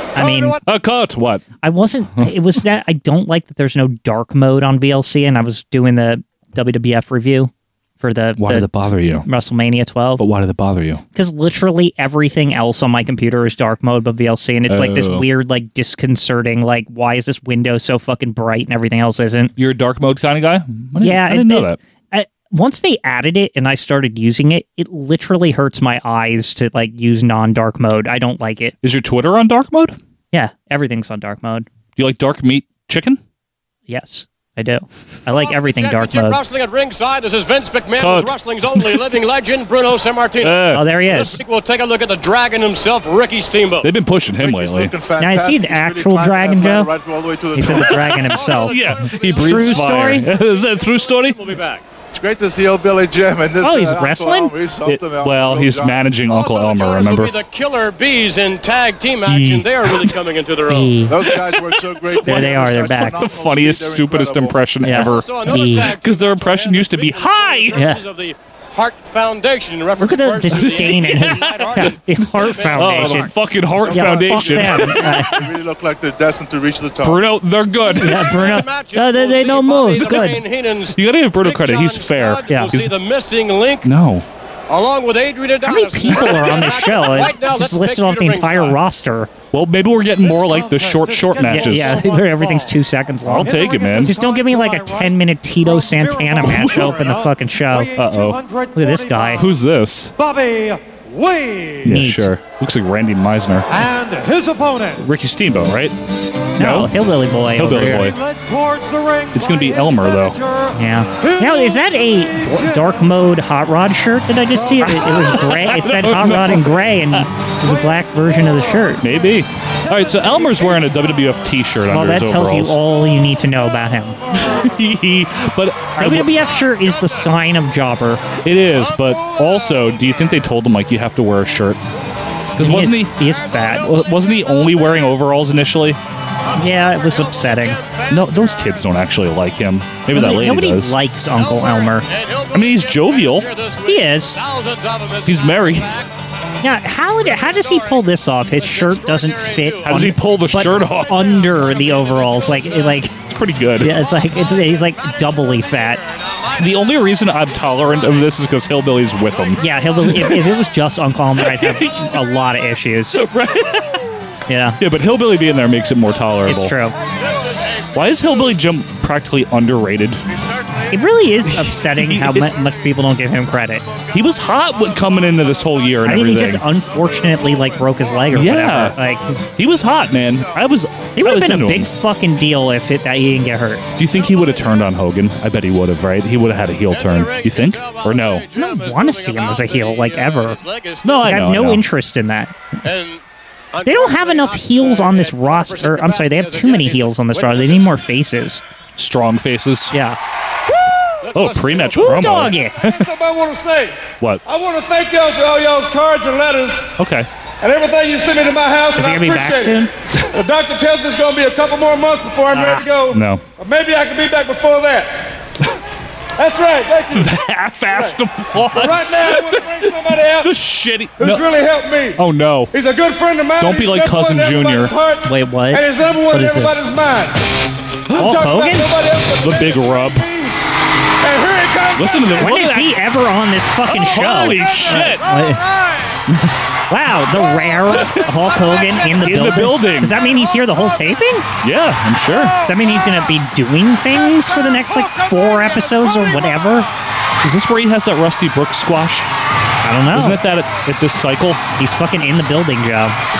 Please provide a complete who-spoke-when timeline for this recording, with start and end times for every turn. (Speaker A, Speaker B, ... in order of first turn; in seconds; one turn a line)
Speaker A: 0.2-0.6
Speaker B: 0.6-1.5
Speaker A: 1.6-8.7
Speaker B: 8.4-9.3
Speaker A: 9.2-10.2
Speaker B: 10.2-11.0
Speaker A: 11.1-19.5
Speaker B: 14.7-15.3
Speaker B: 19.6-21.8
Speaker A: 21.0-28.8
Speaker B: 28.8-30.0
Speaker A: 30.3-31.7
Speaker B: 32.0-33.2
Speaker A: 33.9-36.4
Speaker C: 35.3-43.9
Speaker B: 38.0-39.2
Speaker B: 40.4-40.9
Speaker A: 40.7-41.4
Speaker B: 43.8-44.9
Speaker D: 44.3-48.3
Speaker A: 45.2-46.9
Speaker A: 47.5-48.8
Speaker B: 47.6-51.4
Speaker C: 48.2-51.8
Speaker A: 49.4-50.3
Speaker D: 52.1-56.1
Speaker A: 53.6-54.5
Speaker B: 54.9-57.3
Speaker C: 56.3-61.0
Speaker B: 59.3-60.1
Speaker A: 60.7-61.2
Speaker D: 61.1-64.6
Speaker B: 61.2-67.8
Speaker A: 62.2-63.3
Speaker A: 64.8-66.0
Speaker C: 65.0-73.3
Speaker A: 67.7-68.0
Speaker A: 70.0-73.3
Speaker B: 70.5-71.9
Speaker B: 72.5-75.4
Speaker D: 73.0-77.3
Speaker A: 73.9-75.4
Speaker B: 77.0-78.6
Speaker C: 77.9-83.9
Speaker A: 77.9-80.4
Speaker B: 81.0-82.9
Speaker A: 82.5-82.7
Speaker B: 83.8-84.3
Speaker C: 84.7-88.8
Speaker A: 85.6-89.3
Speaker B: 89.5-92.0
Speaker E: 90.2-92.7
Speaker A: 91.4-97.9
Speaker B: 93.2-94.2
Speaker E: 93.4-99.5
Speaker B: 96.5-96.8
Speaker B: 98.0-98.4
Speaker A: 98.8-99.5
Speaker B: 99.3-100.1
Speaker E: 100.2-102.0
Speaker B: 101.8-103.7
Speaker A: 101.8-102.3
Speaker E: 103.7-105.1
Speaker B: 105.0-106.0
Speaker B: 106.6-106.9
Speaker A: 106.6-108.1
Speaker B: 107.5-108.2
Speaker E: 107.9-113.0
Speaker B: 109.3-110.4
Speaker A: 110.7-119.0
Speaker E: 114.5-115.4
Speaker B: 114.9-117.3
Speaker B: 119.0-122.8
Speaker A: 121.9-124.2
Speaker B: 124.3-126.3
Speaker A: 126.0-128.3
Speaker B: 128.4-131.8
Speaker B: 132.6-133.2
Speaker A: 132.6-133.9
Speaker C: 133.6-134.9
Speaker B: 133.7-136.0
Speaker C: 136.5-138.9
Speaker A: 136.6-137.8
Speaker B: 138.1-141.0
Speaker A: 140.1-142.1
Speaker C: 141.3-146.1
Speaker B: 142.5-143.5
Speaker A: 143.8-144.4
Speaker B: 145.3-145.9
Speaker A: 146.6-153.1
Speaker C: 147.2-150.2
Speaker B: 149.8-151.3
Speaker C: 150.7-153.1
Speaker B: 153.2-153.9
Speaker A: 153.8-156.0
Speaker C: 154.1-157.0
Speaker B: 156.6-160.5
Speaker A: 159.6-163.2
Speaker B: 161.4-162.1
Speaker B: 163.1-164.0
Speaker A: 164.5-164.8
Speaker B: 164.8-166.7
Speaker A: 166.5-166.9
Speaker C: 167.2-167.9
Speaker B: 167.9-170.2
Speaker D: 170.2-171.5
Speaker A: 170.9-173.9
Speaker B: 171.5-172.5
Speaker D: 172.4-173.1
Speaker D: 173.6-180.8
Speaker B: 174.1-176.7
Speaker A: 176.0-179.4
Speaker B: 178.3-179.0
Speaker B: 179.6-181.9
Speaker A: 181.2-183.8
Speaker B: 184.0-188.5
Speaker C: 186.9-191.3
Speaker A: 188.5-190.6
Speaker B: 191.0-191.8
Speaker A: 191.2-192.6
Speaker C: 192.8-193.2
Speaker C: 193.7-197.9
Speaker A: 193.8-198.6
Speaker B: 199.0-199.9
Speaker A: 199.9-200.2
Speaker C: 201.2-202.5
Speaker B: 201.3-203.1
Speaker A: 201.9-202.8
Speaker F: 202.8-206.9
Speaker B: 207.0-207.3
Speaker F: 207.6-215.1
Speaker A: 209.0-209.9
Speaker A: 212.5-212.9
Speaker B: 213.1-213.4
Speaker F: 216.4-217.3
Speaker B: 217.1-219.9
Speaker F: 217.9-220.5
Speaker B: 220.4-221.5
Speaker F: 221.2-222.2
Speaker B: 222.2-222.7
Speaker F: 222.7-227.5
Speaker B: 223.6-224.9
Speaker A: 225.2-226.9
Speaker B: 228.1-228.5
Speaker F: 228.2-230.5
Speaker A: 228.2-228.9
Speaker B: 229.4-230.3
Speaker F: 231.2-232.6
Speaker B: 231.9-233.0
Speaker A: 232.4-235.6
Speaker B: 233.9-235.3
Speaker A: 236.9-241.5
Speaker B: 237.9-238.3
Speaker B: 239.1-240.2
Speaker B: 241.6-242.6
Speaker A: 242.6-246.9
Speaker B: 247.4-249.3
Speaker A: 249.8-250.4
Speaker B: 250.1-251.6
Speaker A: 251.8-253.2